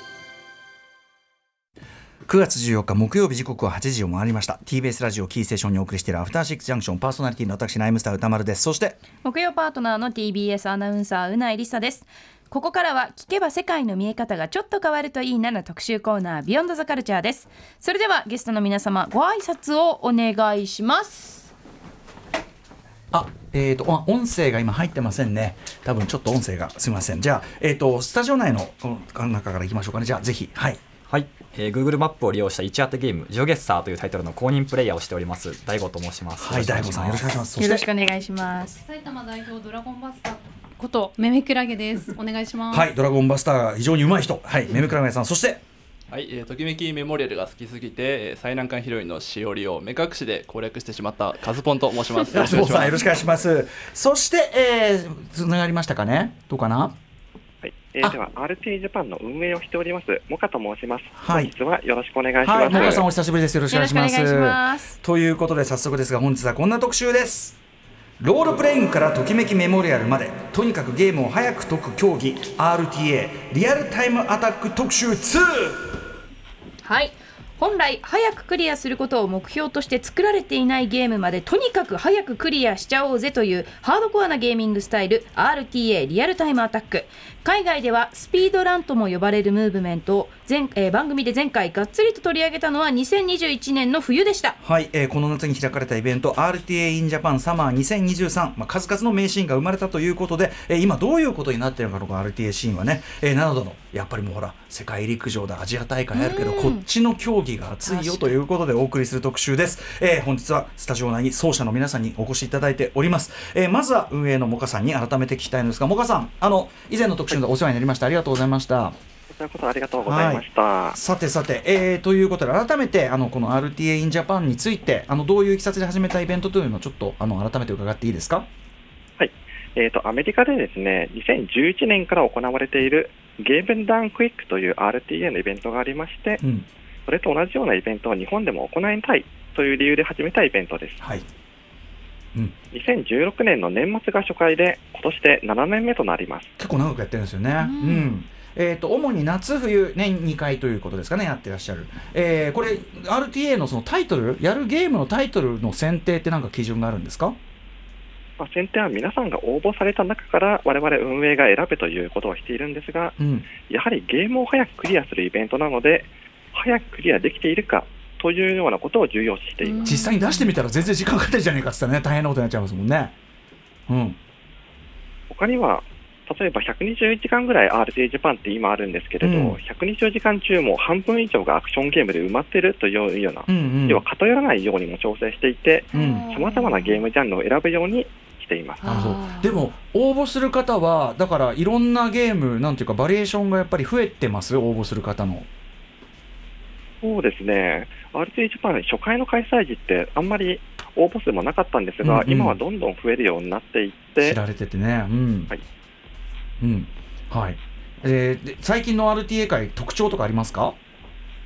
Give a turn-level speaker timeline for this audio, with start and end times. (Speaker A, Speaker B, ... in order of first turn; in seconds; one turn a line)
Speaker A: 2.2-9.0
Speaker B: 9.2-21.5
Speaker A: 23.1-30.8
Speaker C: 31.1-37.4
Speaker A: 36.4-37.9
Speaker B: 37.5-38.8
Speaker D: 38.8-42.9
Speaker A: 42.7-45.6
Speaker E: 46.1-53.1
Speaker A: 52.3-57.0
Speaker F: 57.6-63.0
Speaker A: 61.2-61.5
Speaker A: 62.4-67.6
Speaker B: 62.7-63.0
Speaker B: 63.7-65.0
Speaker A: 68.2-76.0
Speaker B: 76.8-94.6
Speaker A: 94.6-119.0
Speaker B: 106.1-106.8
Speaker B: 107.8-108.3
Speaker F: 119.3-121.0
Speaker A: 120.0-128.5
Speaker F: 129.2-136.4
Speaker A: 136.4-136.7
Speaker F: 137.1-141.0
Speaker A: 141.0-141.2
Speaker F: 142.7-146.5
Speaker A: 146.6-157.4
Speaker B: 147.6-148.1
Speaker F: 158.4-163.1
Speaker A: 163.2-163.5
Speaker F: 163.7-170.0
Speaker B: 169.6-170.5
Speaker A: 169.8-173.1
Speaker A: 173.9-174.2
Speaker F: 175.3-189.0
Speaker A: 179.2-179.6
Speaker A: 183.5-184.0
Speaker A: 185.9-186.3
Speaker B: 185.9-187.0
Speaker B: 188.8-189.6
Speaker A: 188.8-195.5
Speaker F: 197.0-204.4
Speaker A: 202.0-202.6
Speaker A: 204.2-205.5
Speaker A: 206.6-210.8